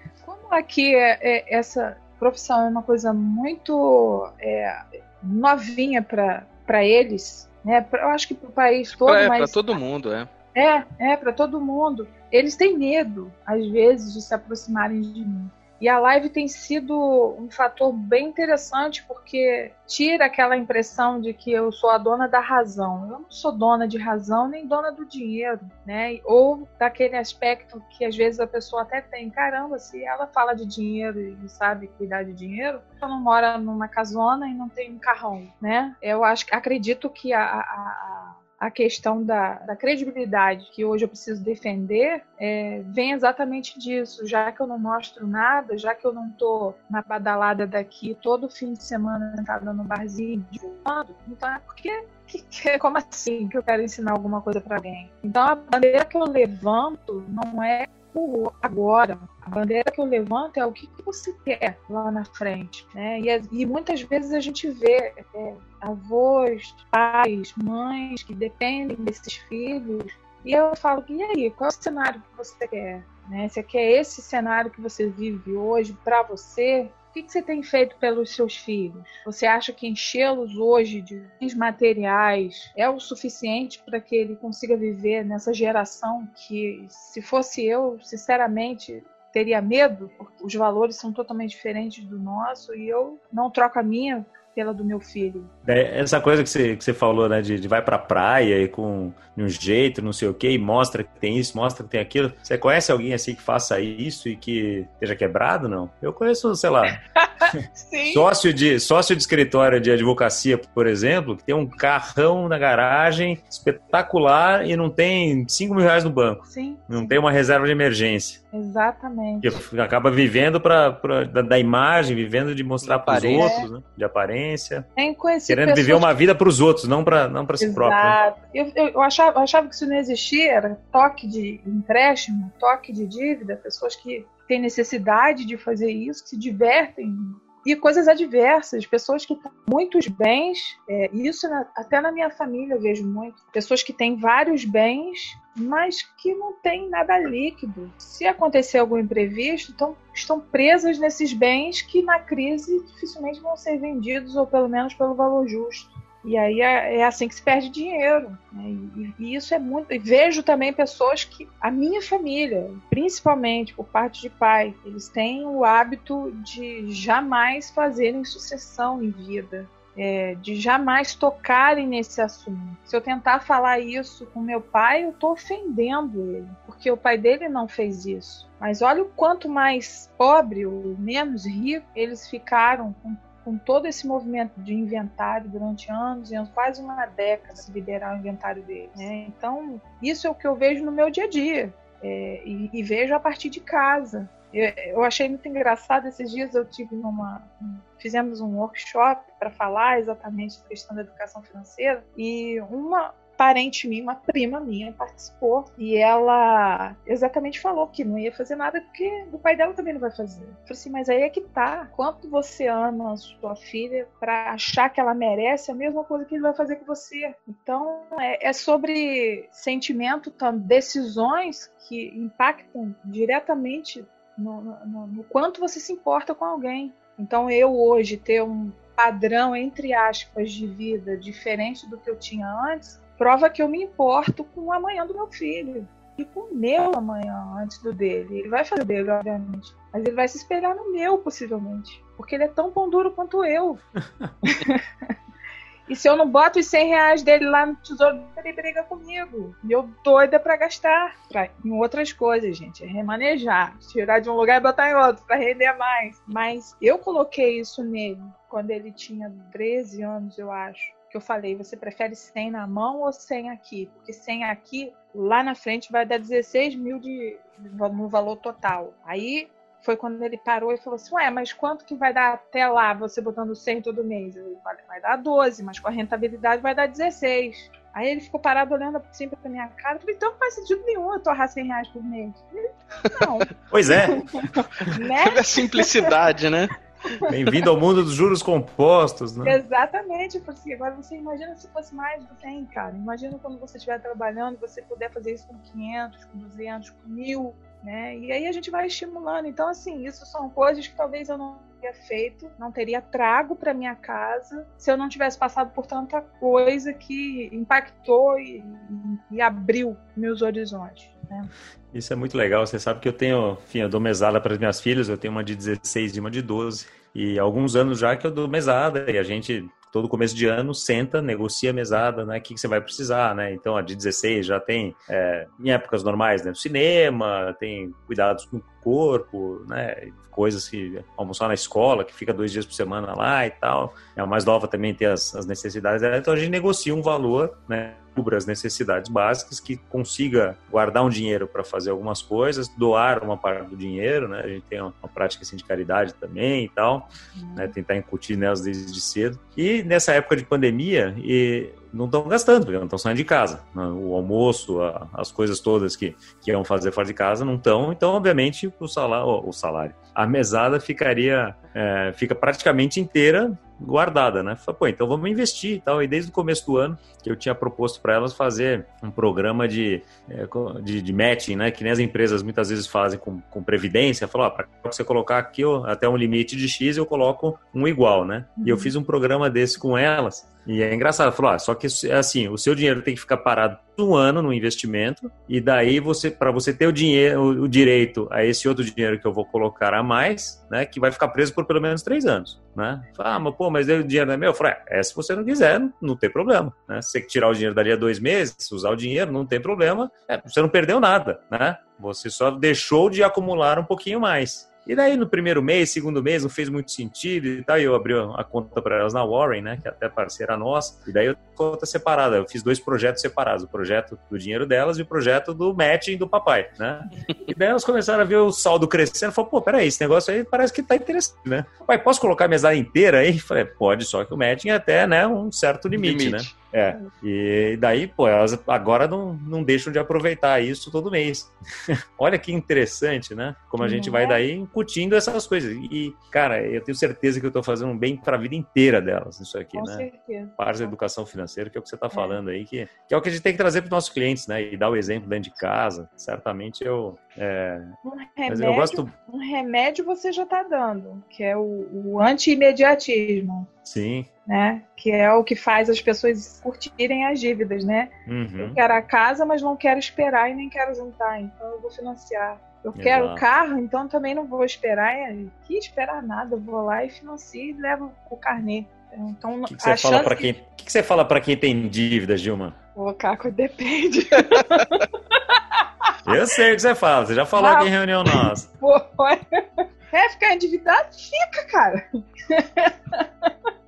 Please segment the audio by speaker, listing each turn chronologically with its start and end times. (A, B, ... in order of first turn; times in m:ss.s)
0:00.2-0:09.8 A
0:09.0-0:10.3 B
0:10.6-1:35.5 A
1:35.6-1:58.4 C
1:47.2-1:48.3 A
1:56.5-1:57.2 A
1:58.5-1:59.6 A
1:59.4-2:04.9 C
2:02.8-2:03.6 B
2:03.4-2:03.7 A
2:05.0-2:06.1 A
2:05.5-2:08.2 C
2:07.6-4:03.8 A
4:04.4-4:04.8 A
4:05.9-4:42.4 A
4:43.0-4:46.2 A
4:43.7-4:44.3 C
4:45.1-4:46.7 B
4:47.3-4:49.6 C
4:49.4-5:11.5 A
5:11.9-7:27.9 C
5:47.4-5:47.7 A
6:18.6-6:18.9 A
7:05.9-7:06.6 B
7:13.8-7:14.4 A
7:19.7-7:21.0 A
7:22.1-7:22.4 A
7:28.0-7:33.7 A
7:28.5-7:29.1 C
7:33.8-7:34.3 C
7:34.5-7:50.5 A
7:38.3-7:38.8 C
7:43.0-7:43.4 C
7:49.7-7:52.8 C
7:53.0-7:56.3 A
7:56.3-7:58.7 C
7:57.6-7:59.6 A
8:00.1-8:03.5 A